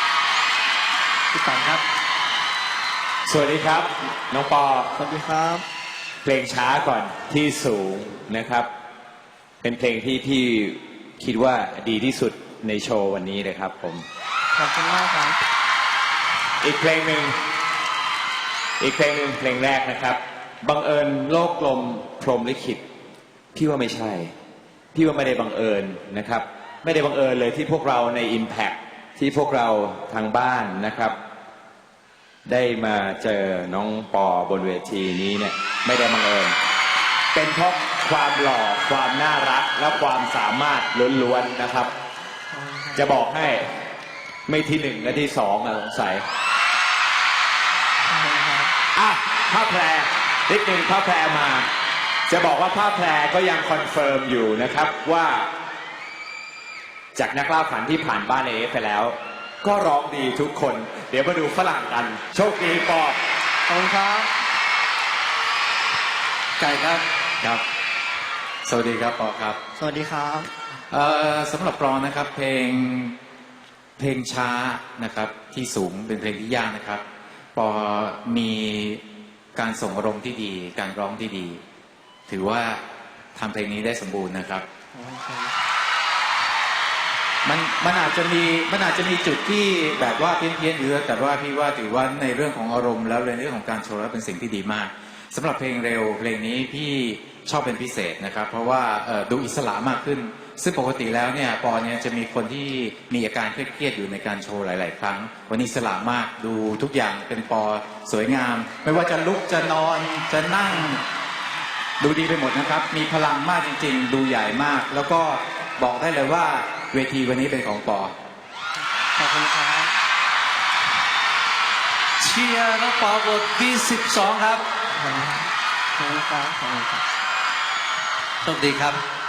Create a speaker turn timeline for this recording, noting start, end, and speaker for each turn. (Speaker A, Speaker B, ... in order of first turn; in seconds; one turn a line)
Speaker A: 1.3-1.8
Speaker B: 3.3-4.9
Speaker A: 5.0-5.6
Speaker B: 6.2-8.7
Speaker B: 9.6-14.1
Speaker A: 14.5-15.4
Speaker B: 16.6-17.4
Speaker B: 18.8-22.8
Speaker B: 23.6-24.3
Speaker B: 24.9-31.2
Speaker B: 32.5-36.6
Speaker B: 37.4-41.9
Speaker A: 42.5-43.1
Speaker B: 43.0-43.6
Speaker B: 44.5-46.2
Speaker A: 48.1-48.7
Speaker B: 49.0-51.7
Speaker B: 52.3-55.5
Speaker B: 57.2-63.2
Speaker A: 63.7-64.3
Speaker C: 66.6-67.0
Speaker D: 68.6-69.6
Speaker A: 69.8-70.5
Speaker D: 70.9-73.2
Speaker D: 74.0-77.0
Speaker D: 77.5-79.0
Speaker D: 79.5-81.6
Speaker D: 82.3-82.8
Speaker D: 83.3-84.7
Speaker A: 84.9-85.5
Speaker D: 87.4-111.0
Speaker D: 112.0-118.2
Speaker A: 119.2-119.9
Speaker C: 122.2-124.6
Speaker A: 125.0-127.0
Speaker C: 128.4-129.0